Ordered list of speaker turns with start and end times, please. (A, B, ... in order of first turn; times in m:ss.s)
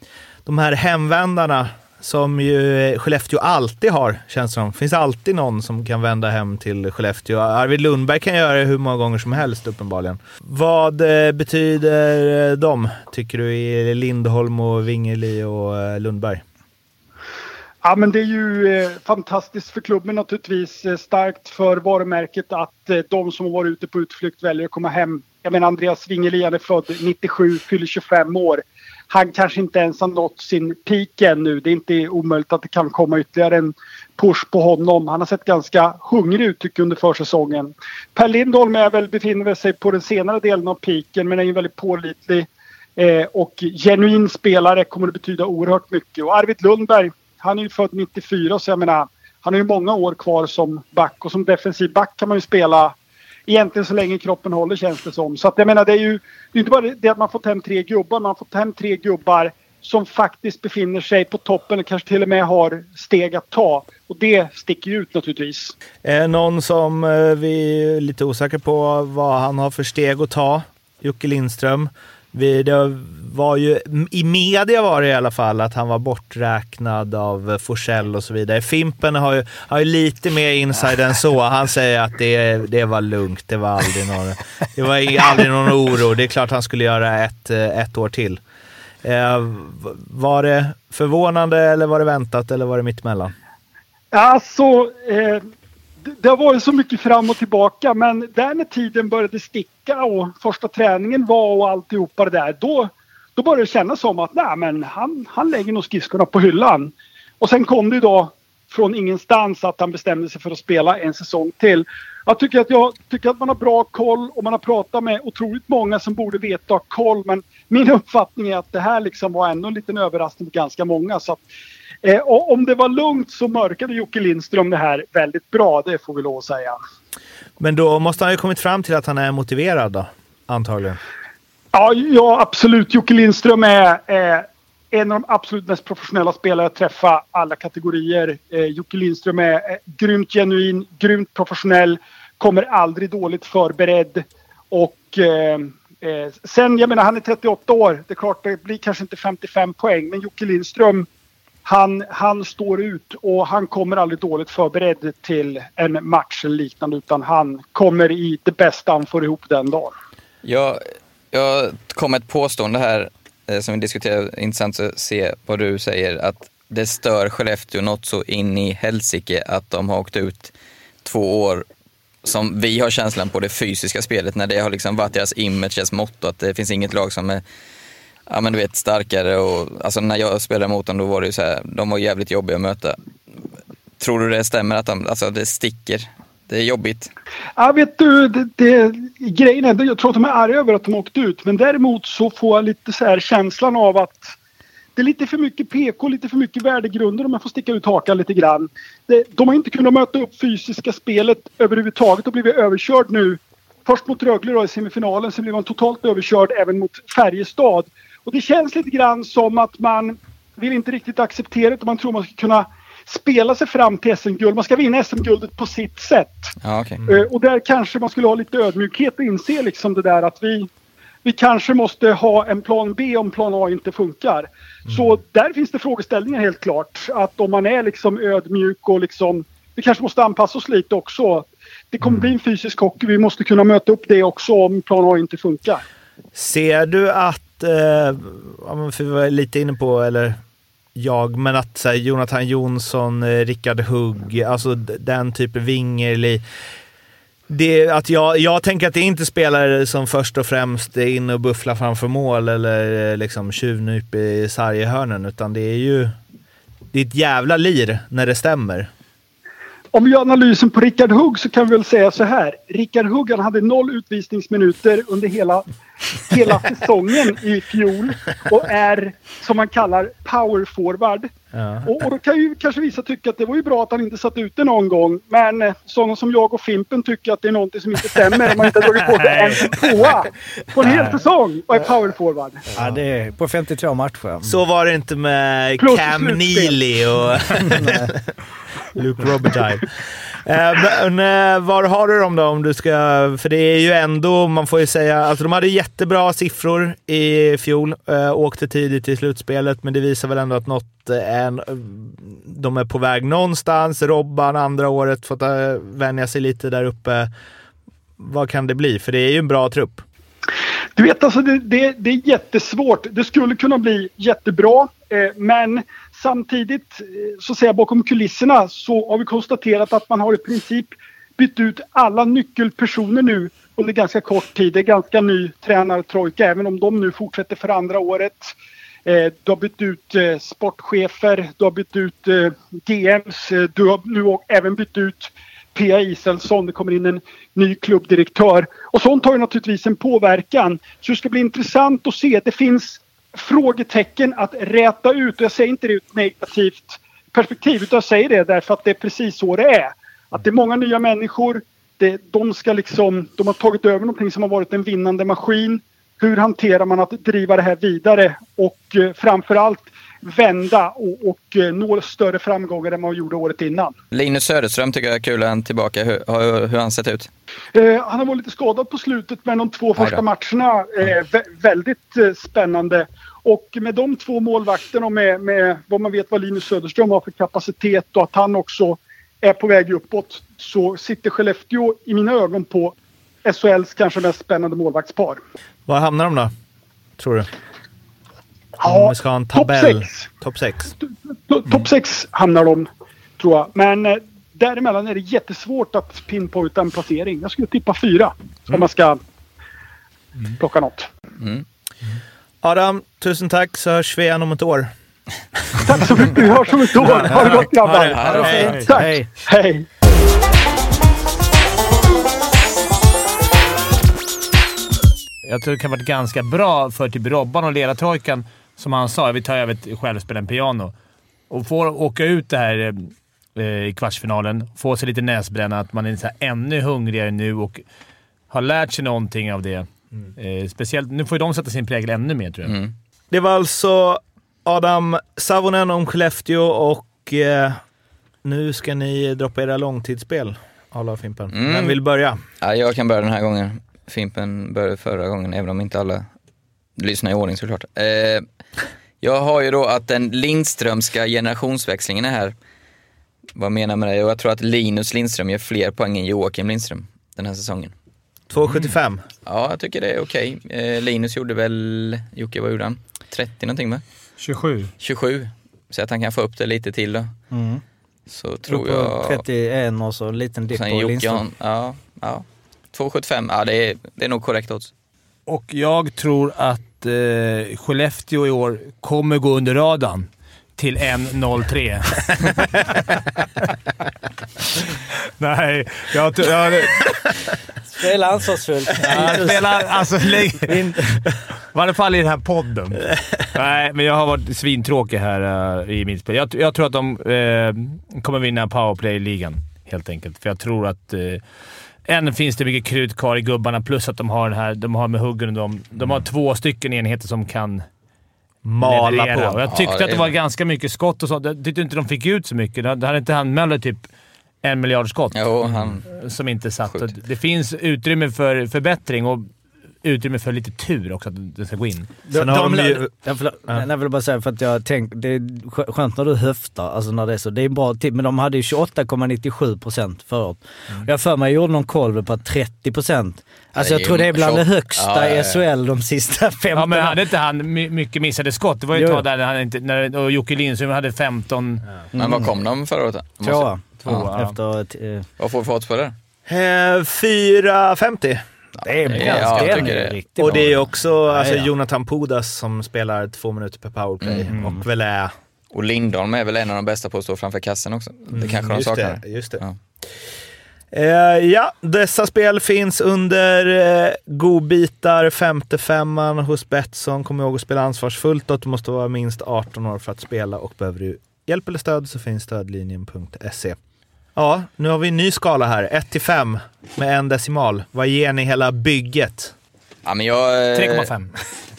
0:00.4-0:16.4 A
0:17.8-0:52.9 B
0:53.5-1:05.7 B
1:06.0-1:28.4 A
1:29.0-1:33.3 A
1:34.1-1:35.4 B
1:36.1-2:01.4 B
2:02.0-2:06.8 B
2:07.6-2:11.0 A
2:11.7-2:31.1 B
2:31.6-2:39.9 B
2:40.4-2:50.5 C
2:51.0-2:51.6 C
2:52.2-2:57.4 C
2:58.3-3:03.0 C
3:04.0-3:07.1 C
3:07.6-3:14.3 B
3:15.0-3:40.7 B
3:36.6-3:37.0 C
3:41.2-3:55.8 B
3:52.0-3:52.3 A
3:56.3-4:00.4 A
4:00.9-4:06.4 A
4:07.5-4:16.2 A
4:16.9-4:18.9 A
4:19.9-4:31.3 B
4:31.5-4:31.9 A
4:31.8-4:42.6 B
4:39.2-4:39.8 D
4:40.8-4:41.1 D
4:42.8-4:44.6 E
4:44.4-4:48.2 A
4:45.8-4:46.8 B
4:47.7-4:48.1 E
4:48.9-5:07.3 A
5:08.2-5:10.0 A
5:11.0-6:03.9 B
6:04.1-6:07.3 C
6:07.7-6:25.4 B
6:10.0-6:10.2 C
6:25.9-6:26.5 A
6:27.2-6:27.5 A
6:28.8-6:30.3 B
6:28.8-6:30.9 A
6:31.5-6:32.9 B
6:33.4-6:39.2 B
6:40.6-6:41.1 B
6:41.4-6:41.6 C
6:42.1-6:44.9 A
6:45.7-6:46.4 A
6:45.8-6:49.8 B
6:47.0-6:48.9 D
6:48.1-6:48.7 C
6:48.3-6:48.7 A
6:48.6-6:49.3 E
6:55.4-7:00.9 D
7:01.5-7:07.8 D
7:08.5-7:12.8 D
7:12.6-7:12.9 C
7:13.3-7:17.8 A
7:18.4-7:22.4 A
7:21.5-7:22.0 C
7:22.6-7:26.3 C
7:27.0-7:28.4 C
7:29.2-7:32.5 C
7:33.5-7:37.9 C
7:38.5-7:39.2 A
7:39.4-7:44.0 C
7:44.4-7:44.9 D
7:45.0-7:47.3 C
7:47.5-7:47.8 E
7:48.3-7:49.4 C
7:48.7-7:51.4 E
7:50.7-7:54.9 C
7:55.5-8:03.0 D
8:05.4-8:07.2 D
8:07.9-8:09.8 E
8:09.0-8:11.0 D
8:10.6-8:11.3 E
8:11.7-8:21.4 D
8:22.0-8:27.8 D
8:28.6-8:29.6 A
8:28.8-8:34.0 D
8:29.7-8:30.3 C
8:34.6-8:39.5 D
8:35.3-8:36.1 C
8:40.0-8:42.1 D
8:42.3-8:57.2 E
8:42.3-8:43.1 A
8:53.7-8:55.6 C
8:56.7-9:01.8 D
8:58.9-8:59.2 E
9:02.1-9:02.5 E
9:02.2-9:04.3 C
9:03.4-9:05.3 E
9:04.0-9:04.6 D
9:05.4-9:06.1 C
9:06.5-9:08.4 A
9:08.8-9:11.7 E
9:09.0-9:10.8 C
9:09.3-9:15.3 A
9:14.5-9:14.8 E
9:15.7-9:19.8 C
9:18.3-9:20.1 A
9:20.9-9:33.8 A
9:34.3-9:39.5 A
9:40.0-9:41.1 C
9:40.7-9:41.3 D